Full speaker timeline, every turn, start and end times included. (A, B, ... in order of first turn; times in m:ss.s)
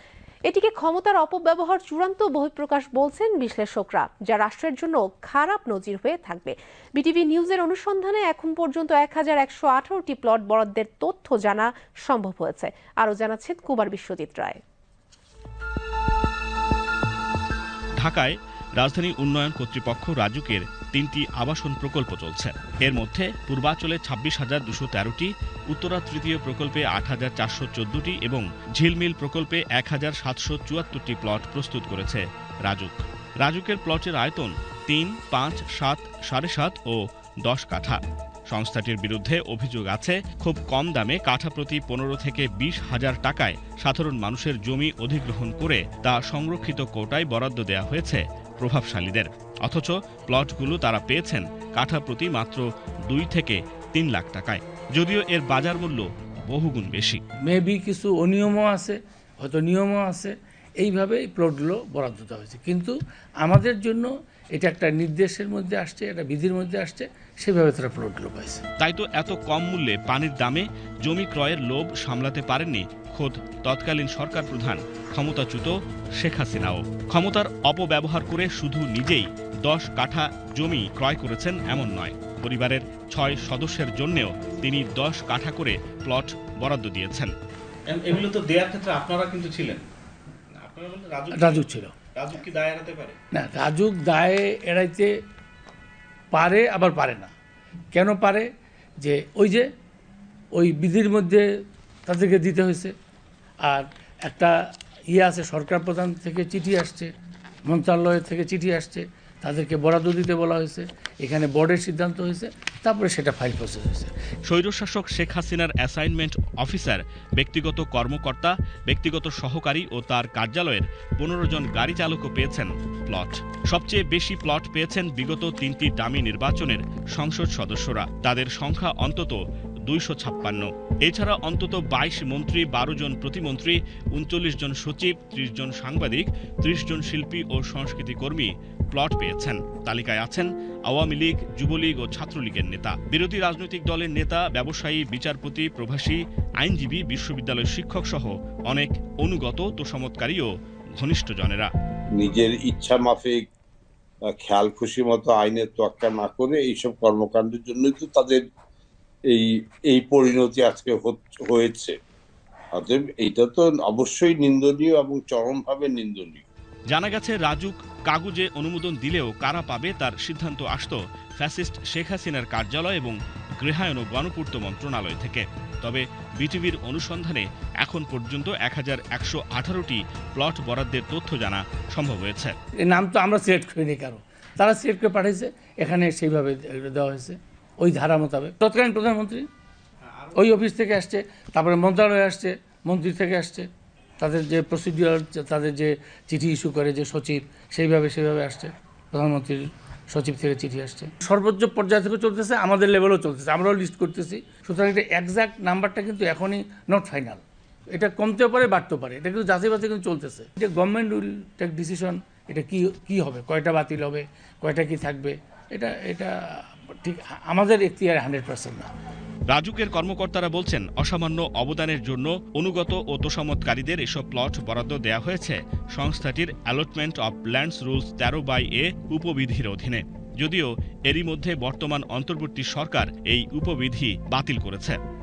0:00.5-0:14.6 A
0:18.0-0:38.0 B
0:38.5-0:57.2 B
0:57.5-1:08.6 C
1:08.8-1:27.3 B
1:27.9-1:29.8 B
1:30.6-1:33.2 B
1:31.3-1:32.0 C
1:33.3-1:35.1 C
1:36.3-1:37.3 C
1:37.9-1:38.5 C
1:39.0-1:39.7 C
1:40.6-1:41.4 C
1:42.1-1:42.9 C
1:43.7-1:44.5 C
1:45.1-1:47.1 C
1:47.7-1:54.1 C
1:54.5-2:30.5 B
2:31.0-2:31.7 B
2:32.2-2:33.4 D
2:34.4-2:38.4 D
2:39.3-2:42.0 D
2:42.8-2:46.4 D
2:46.9-3:02.5 B
3:02.9-3:09.5 C
3:10.3-3:13.7 C
3:14.2-3:19.6 C
3:20.1-3:27.4 C
3:27.9-3:36.4 C
3:37.0-3:38.9 C
3:39.5-3:55.0 B